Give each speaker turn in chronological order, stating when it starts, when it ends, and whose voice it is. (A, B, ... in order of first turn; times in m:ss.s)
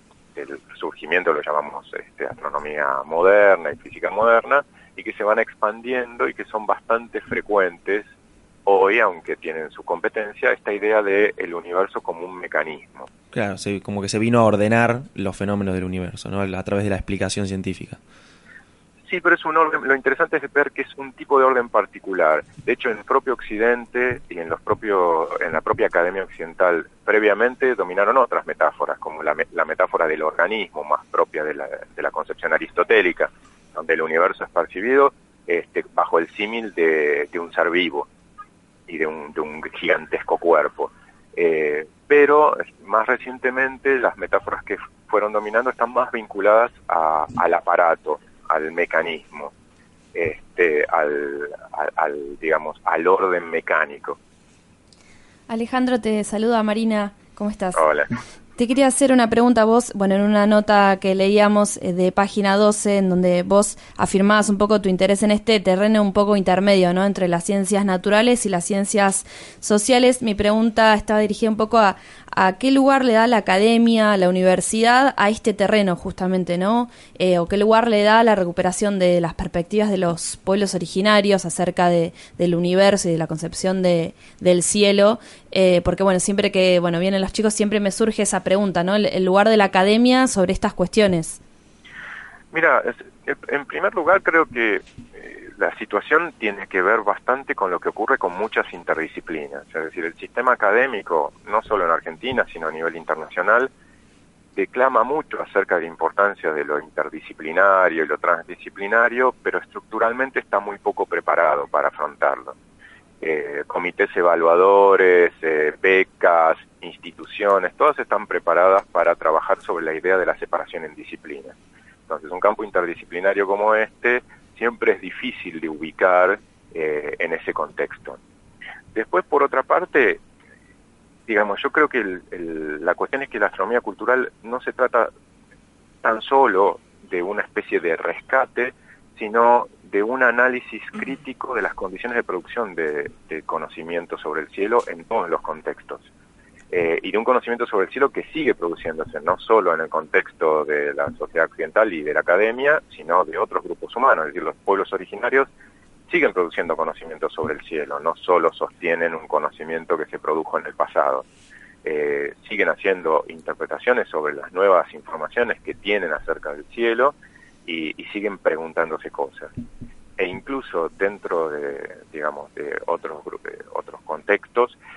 0:00.4-0:08.1 A
0:08.6-0:13.1 A
0:13.3-0:18.0 B
0:19.1-0:38.1 A
0:38.9-0:49.5 A
0:50.1-0:54.2 A
0:55.5-0:57.8 C
0:57.8-0:58.1 A
0:58.6-1:31.4 C
1:32.5-1:43.7 A
1:44.6-1:52.6 A
1:53.2-2:01.5 A
2:02.1-2:08.2 A
2:08.9-2:10.2 A
2:11.3-2:15.1 A
2:16.0-2:26.1 A
2:26.7-2:35.5 A
2:36.1-2:41.2 A
2:41.8-2:47.1 A
2:47.6-2:49.5 A
2:50.2-2:54.8 A